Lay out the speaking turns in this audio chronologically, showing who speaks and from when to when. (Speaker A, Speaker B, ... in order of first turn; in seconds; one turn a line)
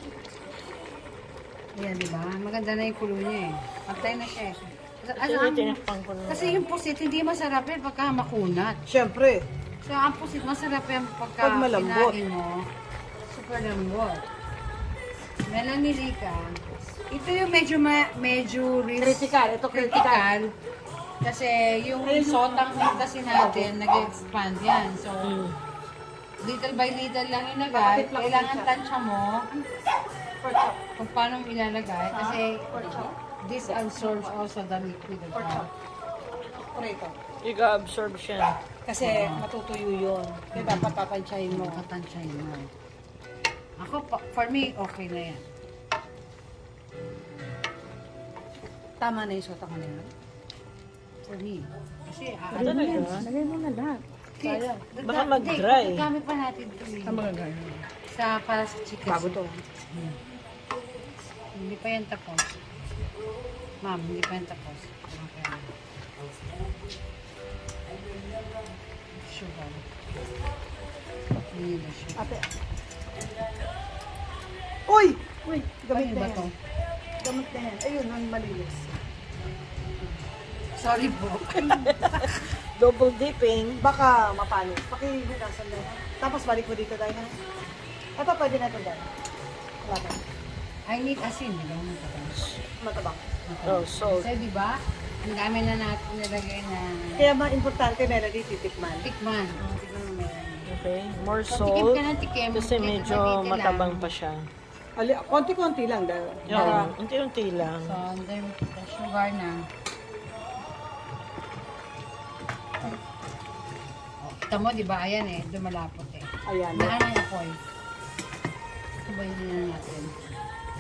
Speaker A: 1.8-8.8
Speaker B: 5.2-6.6
Speaker C: 8.9-9.4
Speaker A: 9.8-12.7
Speaker C: 11.4-12.2
Speaker A: 13.3-14.3
Speaker A: 15.4-16.6
Speaker A: 17.1-20.6
Speaker C: 19.0-20.2
Speaker A: 21.2-25.4
Speaker C: 22.0-24.1
Speaker B: 25.2-25.6
Speaker A: 26.4-29.5
Speaker C: 27.7-28.7
Speaker C: 30.4-30.8
Speaker A: 31.0-35.7
Speaker C: 32.1-33.1
Speaker C: 33.7-34.4
Speaker C: 35.3-35.7
Speaker C: 36.7-37.1
Speaker B: 37.4-38.6
Speaker C: 38.9-41.9
Speaker A: 39.0-39.5
Speaker A: 40.5-42.7
Speaker A: 43.8-45.4
Speaker C: 49.0-50.1
Speaker A: 51.3-53.3
Speaker B: 52.6-53.3
Speaker C: 52.6-54.7
Speaker A: 54.4-57.3
Speaker B: 55.0-56.1
Speaker C: 57.1-57.8
Speaker A: 58.1-59.4
Speaker C: 59.1-59.6
Speaker A: 59.9-60.2
Speaker A: 61.5-62.6
Speaker A: 63.8-65.7
Speaker A: 69.2-69.8
Speaker A: 71.5-72.3
Speaker C: 72.2-72.5
Speaker C: 74.9-76.5
Speaker A: 75.9-76.5
Speaker C: 77.2-79.0
Speaker A: 80.8-81.9
Speaker B: 81.5-83.8
Speaker C: 81.7-82.2
Speaker C: 83.8-87.4
Speaker C: 88.2-89.1
Speaker C: 89.8-90.2
Speaker A: 90.9-92.5
Speaker C: 92.8-93.2
Speaker A: 93.5-97.3
Speaker B: 93.7-94.3
Speaker C: 97.2-99.1
Speaker A: 99.0-100.7
Speaker B: 100.7-104.4
Speaker A: 101.5-104.1
Speaker C: 105.0-106.9
Speaker B: 106.5-108.0
Speaker A: 106.5-106.9
Speaker A: 107.8-109.7
Speaker A: 114.2-117.6
Speaker C: 116.5-117.0
Speaker A: 119.1-120.1